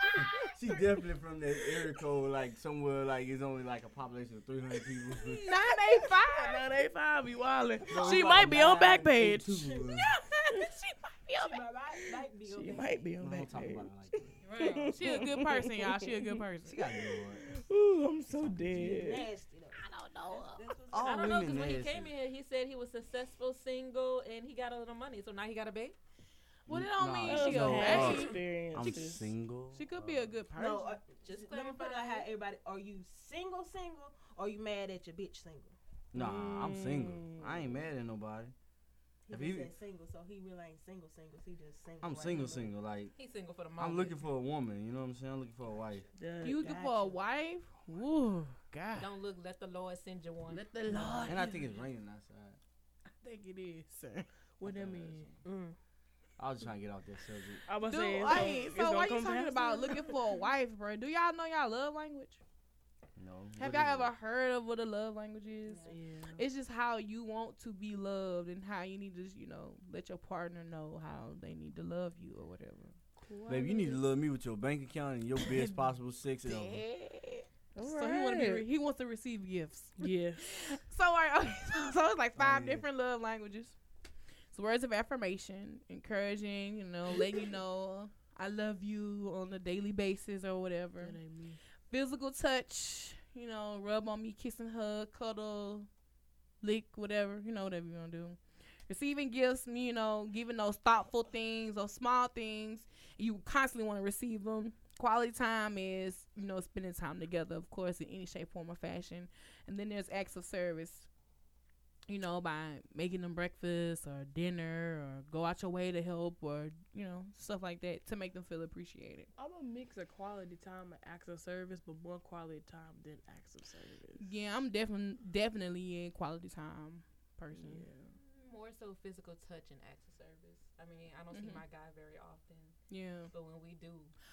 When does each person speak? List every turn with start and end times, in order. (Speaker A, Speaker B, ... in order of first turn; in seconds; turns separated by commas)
Speaker A: 0.4-5.5, Speaker B: 5.3-6.6, Speaker C: 6.3-9.8, Speaker A: 7.9-10.1, Speaker B: 10.0-11.6, Speaker D: 11.4-13.1, Speaker C: 12.5-16.4, Speaker A: 13.2-14.4, Speaker E: 14.4-15.0, Speaker B: 14.9-16.8, Speaker A: 16.7-17.6, Speaker C: 17.0-19.3, Speaker A: 18.3-19.2, Speaker D: 18.8-21.5, Speaker B: 19.8-20.7, Speaker A: 20.9-22.1, Speaker E: 21.0-26.0, Speaker B: 26.7-29.1, Speaker A: 26.7-30.3, Speaker C: 27.2-29.3, Speaker B: 29.7-31.0, Speaker D: 30.6-35.8, Speaker E: 31.3-32.3, Speaker A: 36.1-38.5, Speaker C: 36.1-37.8, Speaker D: 39.3-42.7, Speaker A: 39.3-39.8, Speaker A: 42.0-43.1, Speaker E: 43.2-44.2, Speaker A: 43.8-46.1, Speaker C: 46.2-46.7, Speaker B: 46.4-49.1, Speaker D: 46.4-47.2, Speaker E: 49.0-50.7, Speaker B: 50.5-51.8, Speaker A: 51.2-52.6, Speaker B: 53.2-54.3, Speaker C: 54.6-55.3, Speaker A: 54.6-55.4, Speaker D: 55.4-55.8, Speaker A: 56.4-57.6, Speaker C: 57.7-60.2, Speaker B: 57.9-62.4, Speaker A: 63.2-64.1, Speaker B: 63.6-73.0, Speaker D: 65.7-66.0, Speaker C: 65.9-66.4, Speaker C: 73.2-74.0, Speaker A: 73.5-76.8, Speaker B: 75.4-75.9, Speaker B: 76.4-83.8, Speaker C: 77.8-78.6, Speaker C: 80.0-80.5, Speaker A: 82.4-82.8, Speaker B: 84.5-91.2, Speaker C: 91.0-91.6, Speaker B: 91.9-95.9, Speaker B: 96.6-111.1, Speaker B: 112.1-119.3, Speaker C: 119.4-124.3, Speaker B: 124.2-127.9, Speaker C: 127.5-128.2, Speaker E: 128.1-132.8, Speaker B: 131.3-131.6, Speaker B: 132.9-133.3, Speaker E: 133.3-134.1